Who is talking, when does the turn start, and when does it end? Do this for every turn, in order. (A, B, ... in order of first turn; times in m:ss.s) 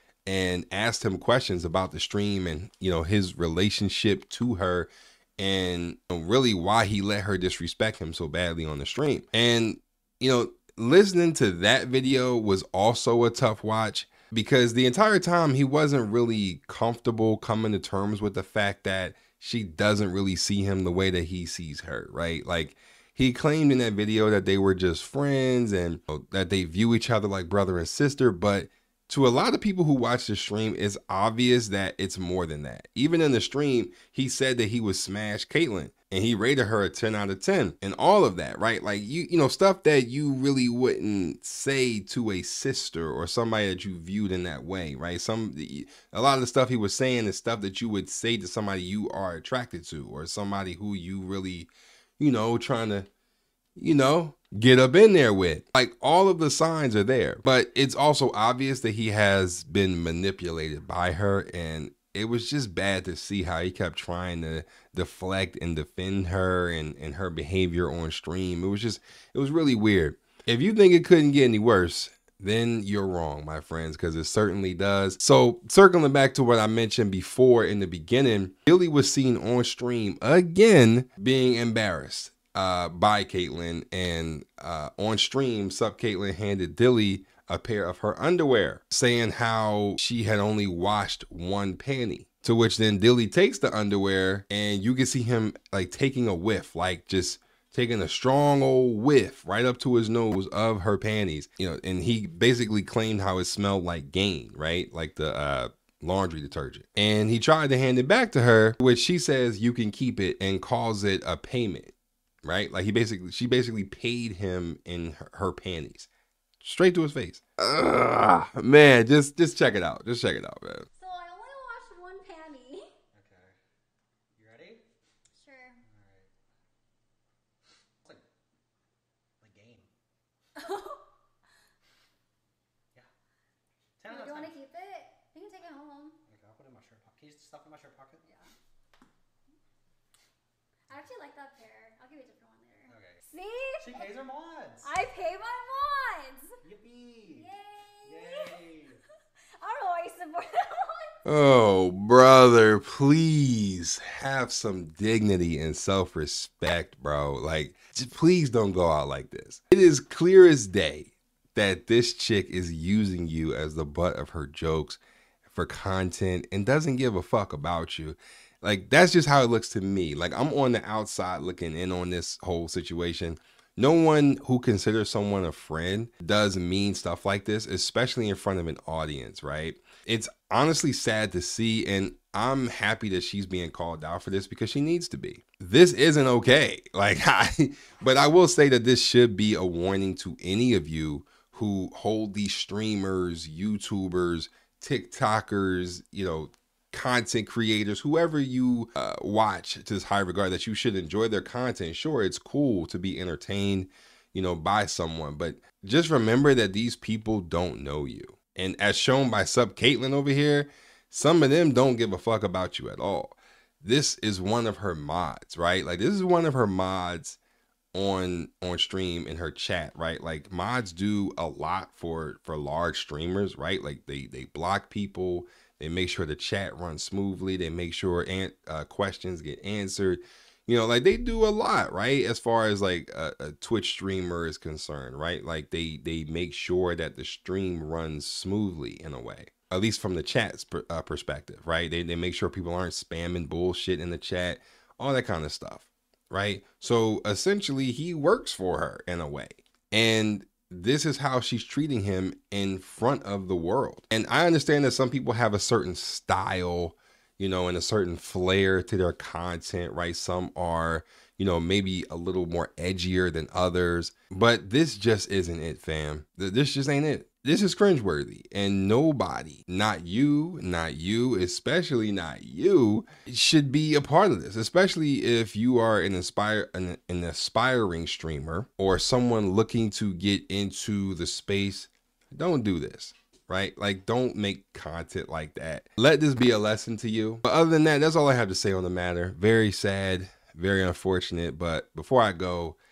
0:00.2-0:53.1 A
0:53.8-1:51.9 A
1:52.4-1:56.1 A
1:56.6-2:00.9 A
2:01.0-2:02.9 B
2:03.1-2:03.6 C
2:04.3-2:04.8 C
2:05.3-2:05.8 B
2:05.8-2:06.3 C
2:09.4-2:09.9 C
2:10.6-2:11.0 B
2:14.0-2:14.6 C
2:14.0-2:16.2 B
2:16.2-2:18.2 C
2:18.2-2:18.5 B
2:20.9-2:24.0 B
2:22.9-2:23.2 C
2:23.8-2:24.9 C
2:24.8-2:26.5 B
2:26.6-2:27.5 C
2:27.3-2:28.7 B
2:28.0-2:29.0 C
2:29.6-2:31.2 B
2:31.2-3:37.4 A
3:37.9-4:52.8 A